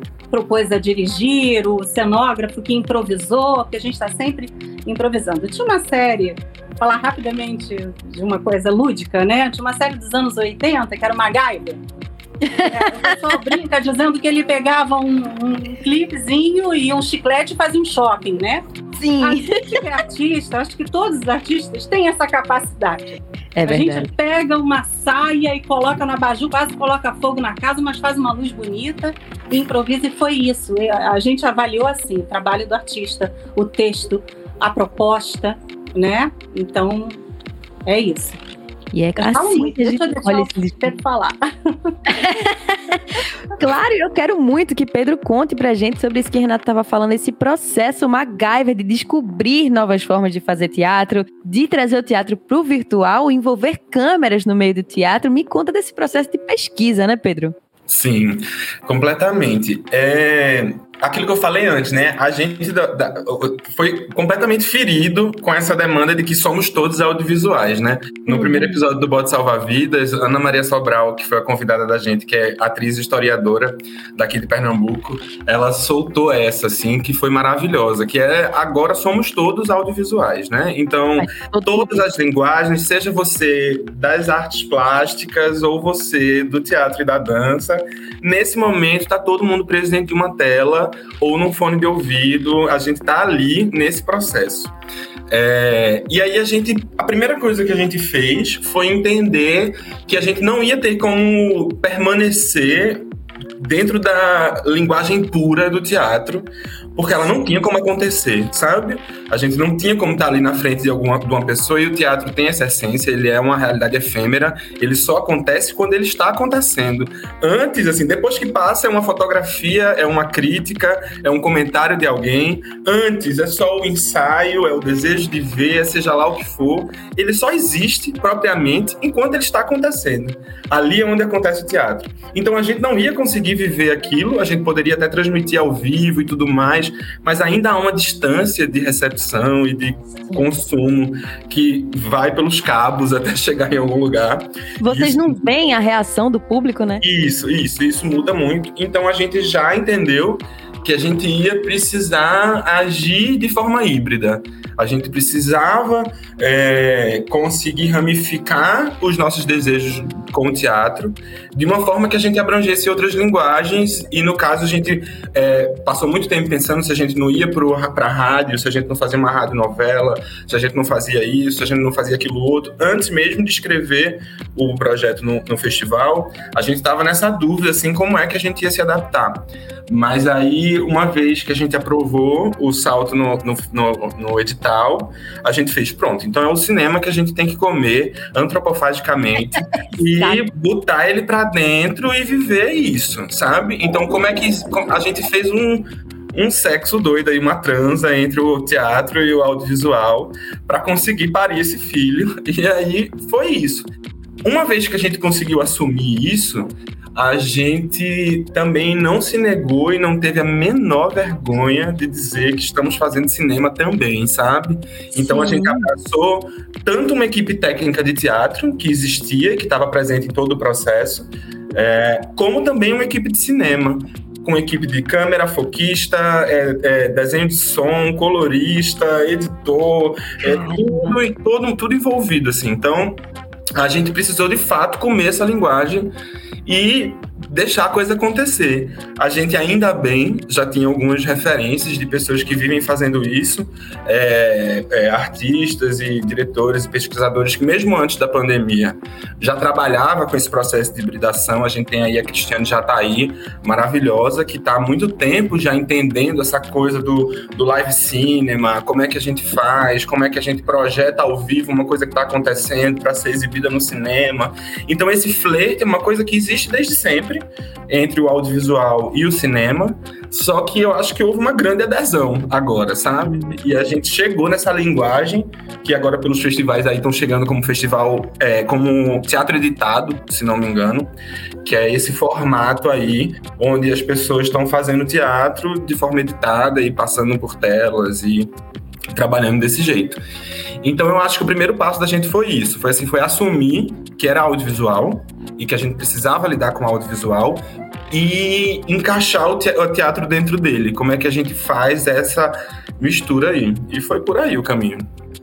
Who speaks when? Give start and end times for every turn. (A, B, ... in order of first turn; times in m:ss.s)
0:00.3-0:11.8 A
0:12.4-0:13.4 B
0:12.6-0:18.6 A
0:19.0-0:19.8 B
0:19.2-0:37.2 A
0:23.6-0:24.1 B
0:37.9-0:38.4 A
0:38.9-0:40.9 B
0:39.2-0:42.0 A
0:42.1-0:57.6 B
0:57.9-1:34.7 C
1:08.3-1:08.8 B
1:21.2-1:22.0 B
1:35.3-1:43.1 C
1:43.6-2:25.5 C
2:24.8-2:27.0 B
2:27.0-3:23.9 C
3:24.4-3:53.2 C
3:35.2-3:35.9 B
3:50.4-3:51.2 B
3:53.8-3:56.1 C
3:56.6-4:41.1 C
4:33.3-4:33.6 B
4:41.6-4:48.5 C
4:49.1-4:50.2 C
4:50.8-5:05.1 C